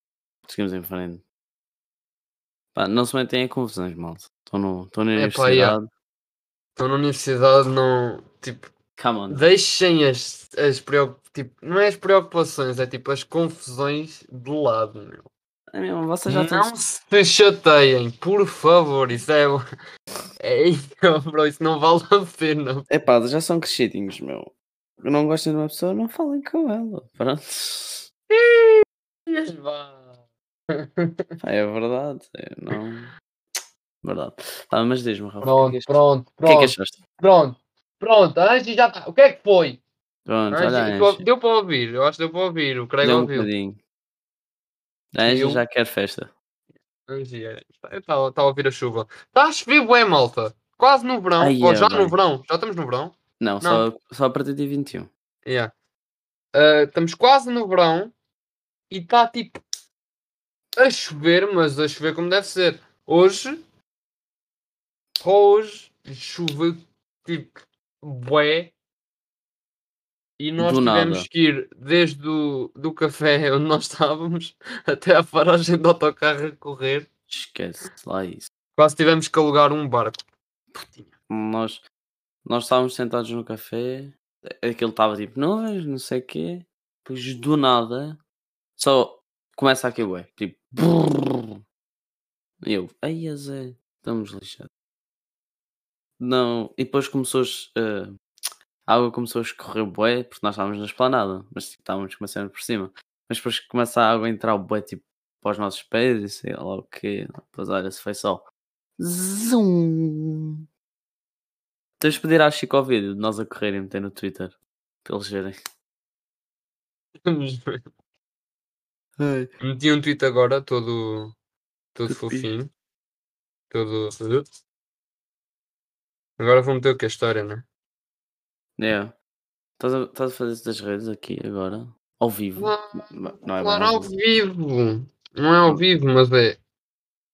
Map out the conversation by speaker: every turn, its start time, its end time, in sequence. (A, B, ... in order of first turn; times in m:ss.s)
0:00.5-0:01.2 A
0:02.7-0:05.8 A
0:05.2-0:05.8 B
0:06.8-0:08.7 B
0:09.0-0:09.4 A
0:09.3-0:15.3 B
0:15.7-0:16.7 A
0:16.3-0:19.6 B
0:20.4-0:22.9 B
0:22.9-0:28.1 A
0:28.3-0:28.8 B
0:29.3-0:30.1 B
0:31.4-0:33.1 A
0:34.0-0:37.0 A
0:35.4-0:39.8 B
0:40.2-0:41.2 A
0:40.5-0:43.5 B
0:43.0-0:43.8 A
0:45.1-0:46.3 A
0:45.2-0:45.6 B
0:47.1-0:53.8 B
0:51.4-0:52.2 A
0:53.4-0:55.1 A
0:55.4-0:55.7 B
0:56.5-0:58.1 B
0:58.9-0:59.6 B
1:00.8-1:03.6 B
1:05.2-1:08.7 B
1:10.4-1:17.1 B
1:10.6-1:11.3 A
1:17.3-1:18.5 A
1:18.8-1:20.2 B
1:21.3-1:21.8 A
1:22.4-1:28.2 A
1:28.8-1:31.6 A
1:32.6-1:34.7 A
1:36.2-1:38.1 A
1:38.8-1:48.4 A
1:49.0-1:50.6 A
1:52.0-1:55.5 A
1:57.2-1:57.8 B
1:59.2-1:59.5 A
1:59.6-2:01.3 B
2:02.0-2:02.7 B
2:02.0-2:02.5 A
2:03.7-2:04.4 B
2:06.4-2:07.6 B
2:08.8-2:09.1 A
2:09.8-2:14.1 A
2:12.6-2:16.6 B